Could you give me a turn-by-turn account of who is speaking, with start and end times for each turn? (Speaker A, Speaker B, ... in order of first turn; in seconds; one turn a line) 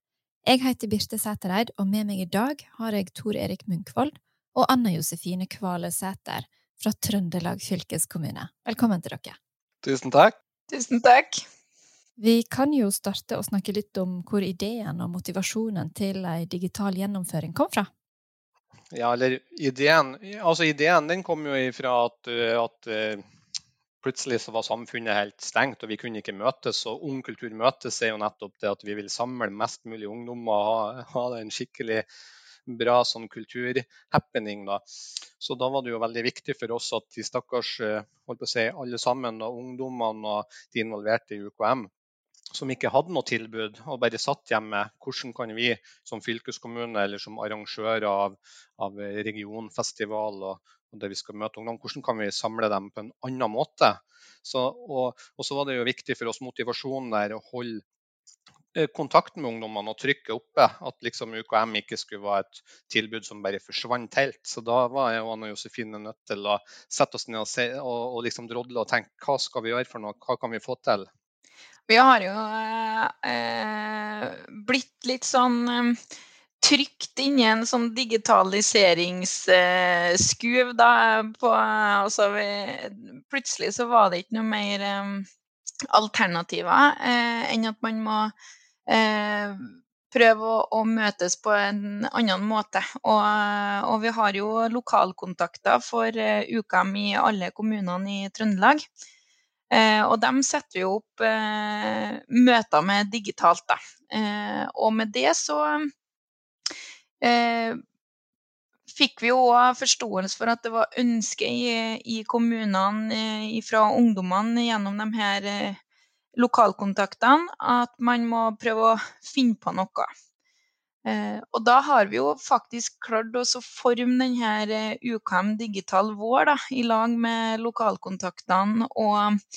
Speaker A: 0.4-9.4
Speaker B: 9.8-10.4
Speaker C: 10.7-11.4
Speaker A: 12.2-17.9
Speaker B: 18.9-23.2
Speaker B: 24.0-32.1
Speaker B: 32.7-34.8
Speaker B: 35.4-41.9
Speaker B: 42.5-57.8
Speaker B: 58.7-71.1
Speaker C: 71.9-76.0
Speaker C: 76.6-85.3
Speaker C: 85.9-88.3
Speaker C: 88.9-98.8
Speaker C: 99.7-105.9
Speaker C: 107.2-107.8
Speaker C: 108.9-115.8
Speaker C: 116.4-120.1
Speaker C: 121.1-129.4